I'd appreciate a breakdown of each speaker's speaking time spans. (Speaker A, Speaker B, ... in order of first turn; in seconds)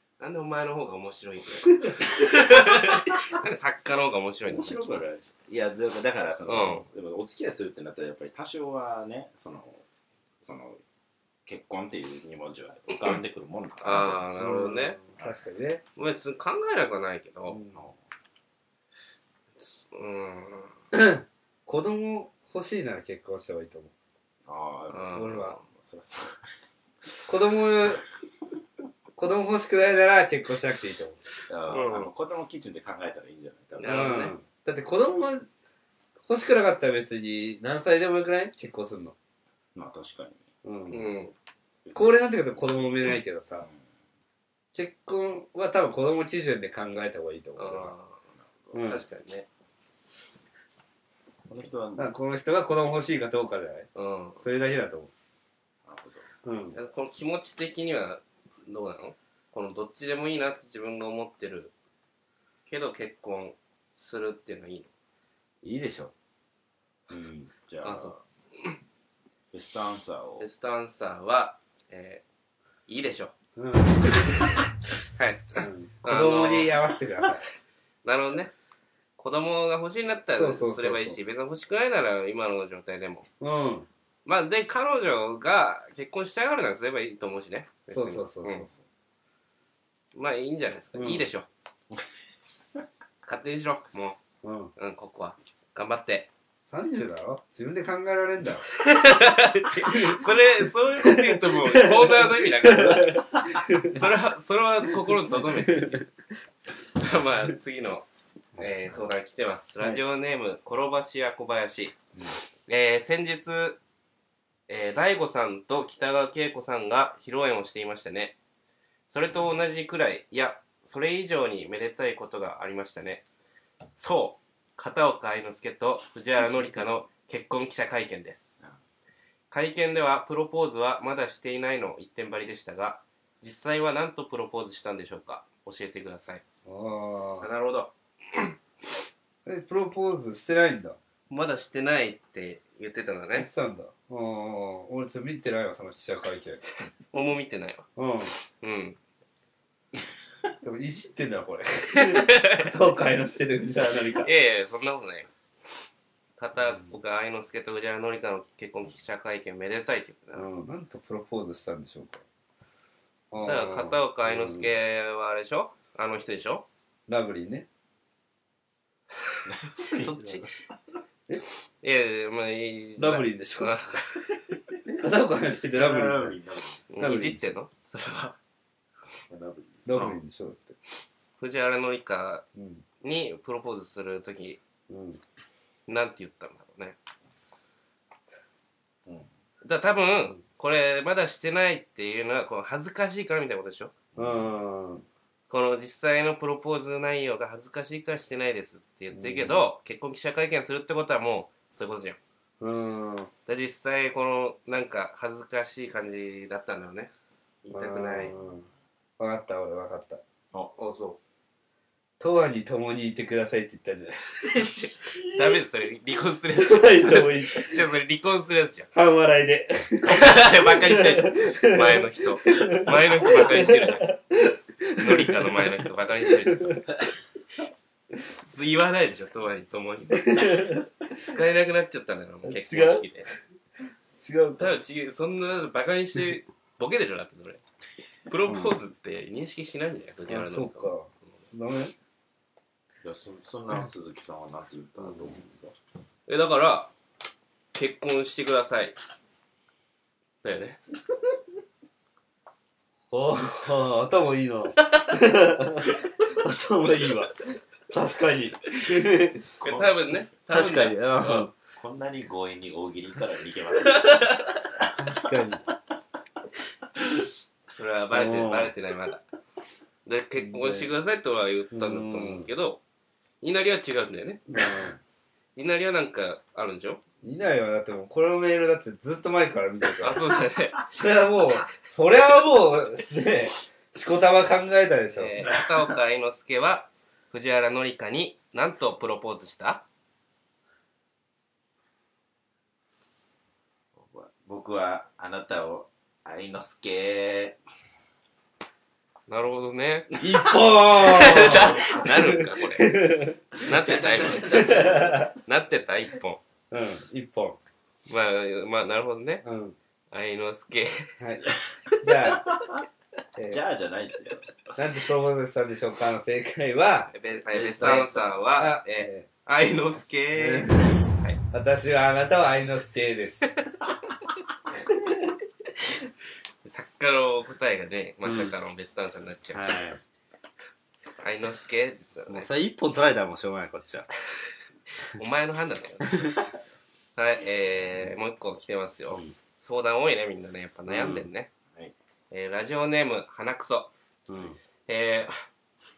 Speaker A: 0.2-4.9, 6.5-6.8, 13.8-15.0, 16.0-17.6, 19.6-20.7, 24.9-25.6, 31.7-32.1, 33.8-34.3, 40.9-41.3, 47.6-48.2, 48.8-49.5, 54.0-54.4, 56.7-61.7, 62.7-64.9, 67.8-68.2, 70.4-72.2, 72.9-73.3, 75.2-76.8, 78.0-78.5, 79.2-83.3, 84.2-88.7, 90.2-91.5, 93.3-94.2, 94.8-96.3, 98.8-106.1, 107.0-108.1, 108.6-112.0, 112.7-113.8, 114.7-118.4, 119.1-123.2, 123.9-128.6, 129.5-136.4, 137.4-138.5, 141.3-143.5, 147.1-147.9, 148.5-149.0, 151.9-152.7, 154.2-155.3, 156.4-160.5, 163.4-166.7, 169.9-170.5, 171.8-174.3, 176.9-178.4, 181.4-182.5, 183.0-184.6, 185.9-187.0, 189.6-193.9, 195.5-202.2, 203.5-207.1, 207.6-208.3, 210.8-211.2, 214.4-218.9, 220.1-224.1, 225.0-226.9, 228.4-233.3, 234.6-237.6, 238.3-240.9, 246.3-246.9, 247.8-248.9, 250.4-250.8, 259.6-261.5, 263.9-264.6, 267.7-269.2, 270.1-272.8, 273.4-274.6, 275.6-277.0, 280.0-280.8, 285.2-289.9, 299.3-300.2, 300.9-303.1, 303.6-304.8, 305.4-306.4, 308.1-309.4, 310.1-311.1, 317.1-321.4, 326.6-329.8, 331.2-332.5, 335.1-336.4, 337.2-341.5, 342.3-343.9, 344.9-345.4
Speaker B: 4.5-9.8, 10.4-10.8, 11.5-14.3, 24.5-26.5, 31.5-34.2, 39.8-40.5, 51.5-52.1, 55.9-56.3, 67.1-68.2, 69.5-70.5, 169.4-170.5, 175.7-176.9, 179.3-180.0, 194.1-194.5, 243.0-245.8, 261.7-264.9, 294.0-297.6, 301.5-302.0, 303.6-305.3, 311.6-312.8, 313.5-314.7, 317.5-318.4
Speaker C: 14.4-15.8, 17.5-17.8, 20.9-23.9, 25.1-25.6, 27.3-28.0, 29.1-31.2, 33.8-35.5, 36.2-39.2, 40.6-41.1, 41.9-43.7, 44.7-47.9, 48.7-49.0, 52.0-53.9, 54.4-55.1, 56.4-56.8, 65.6-66.1, 73.6-74.4, 75.6-77.4, 80.3-81.2, 83.4-83.9, 87.9-88.7, 90.9-91.3, 94.4-94.7, 96.7-98.7, 99.6-100.3, 101.0-104.0, 105.4-106.0, 136.7-137.5, 139.4-141.0, 143.3-146.6, 148.0-148.3, 150.6-154.3, 160.3-162.2, 163.3-164.7, 167.1-167.7, 173.0-173.8, 174.8-176.4, 177.0-177.5, 179.9-180.8, 182.6-182.8, 184.9-185.2, 194.2-195.1, 199.1-199.7, 202.6-203.3, 207.7-208.7, 209.2-210.2, 212.2-214.2, 216.5-217.8, 218.9-226.8, 230.2-230.8, 232.4-233.1, 234.2-234.7, 238.4-238.8, 240.3-241.9, 245.0-245.3, 253.1-259.8, 260.5-261.5, 264.9-265.6, 268.1-268.7, 270.4-270.9, 271.7-272.5, 274.5-275.0, 277.2-285.5, 300.2-303.4, 304.3-305.3, 306.7-307.6, 309.4-309.8, 311.2-312.6, 313.4-313.6, 314.8-317.1, 317.8-319.3, 320.4-323.6, 328.2-328.5, 329.5-330.0, 332.3-334.1, 340.9-341.3, 344.3-344.6